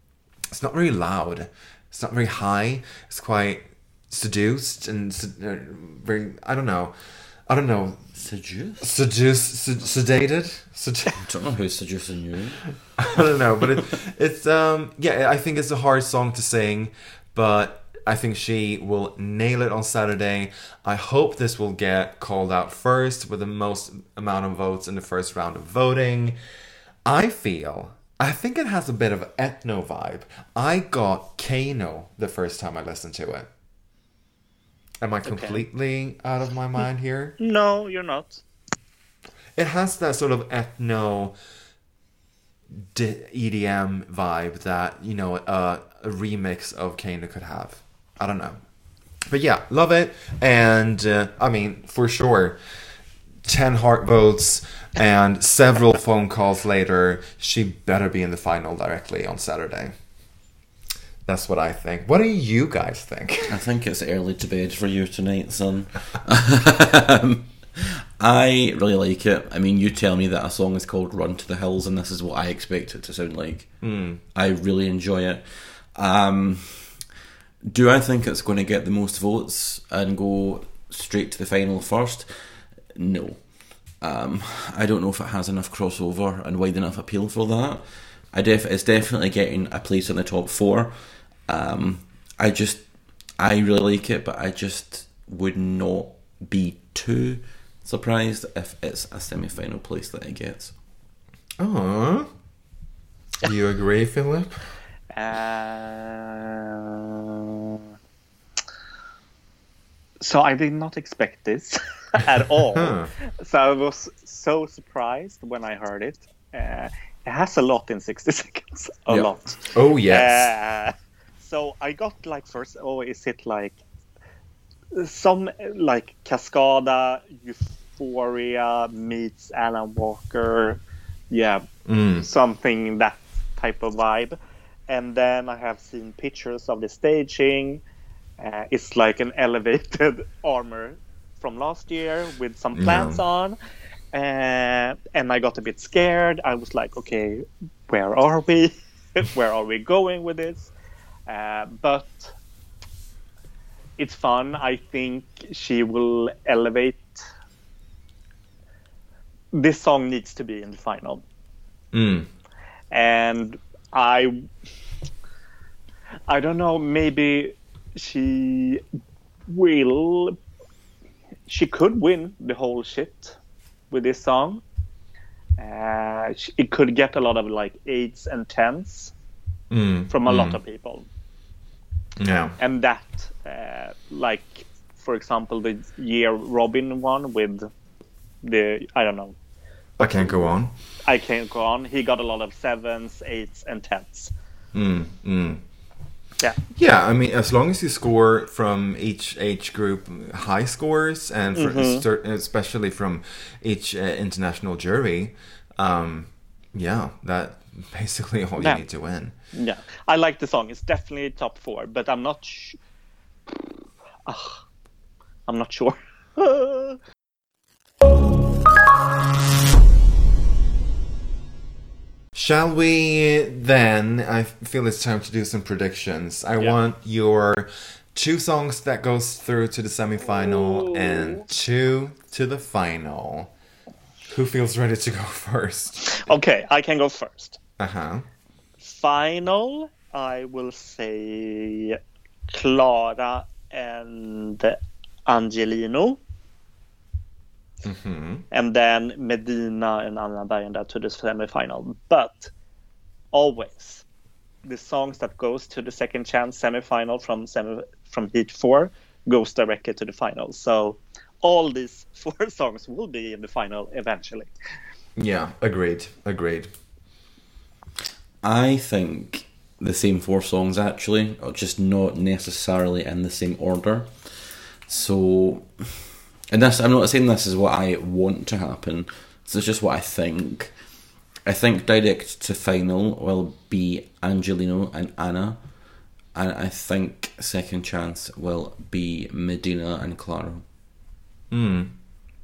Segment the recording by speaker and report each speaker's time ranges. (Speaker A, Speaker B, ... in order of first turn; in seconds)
Speaker A: 0.5-6.9, 7.5-8.1, 8.8-11.2, 13.0-26.4, 27.0-33.5, 35.0-37.4, 39.5-41.3, 42.7-48.6, 49.2-52.6, 53.4-59.9, 61.2-63.6, 73.8-74.2, 101.6-102.3, 103.4-104.7, 112.7-113.1, 119.1-120.5, 131.8-132.3, 142.7-143.2, 161.9-162.3, 179.7-180.6, 182.2-182.6, 190.0-190.7, 194.7-195.6, 196.7-209.3, 222.3-233.5, 234.3-236.3, 237.8-238.2, 247.8-248.4, 265.2-266.7, 291.5-291.9
Speaker B: 8.2-8.9, 11.2-13.0, 63.5-73.8, 74.3-77.0, 77.7-83.5, 84.0-92.8, 93.4-100.7, 268.4-280.7, 281.4-285.6, 286.3-290.6
Speaker C: 35.2-35.6, 37.4-38.4, 105.1-107.8, 110.2-123.8, 124.9-131.7, 132.2-134.4, 134.9-137.8, 138.4-143.6, 144.1-150.7, 151.3-152.3, 154.0-157.2, 159.5-161.2, 162.9-164.4, 166.3-168.8, 169.5-170.4, 171.5-173.4, 173.9-174.6, 175.6-179.1, 180.1-181.1, 182.6-187.7, 188.4-189.3, 190.0-190.4, 191.0-194.3, 201.5-202.0, 208.6-208.8, 209.5-212.8, 214.3-214.6, 215.5-217.0, 230.4-231.4, 236.0-237.6, 238.8-242.0, 242.5-246.2, 248.5-252.5, 253.3-254.0, 254.6-264.5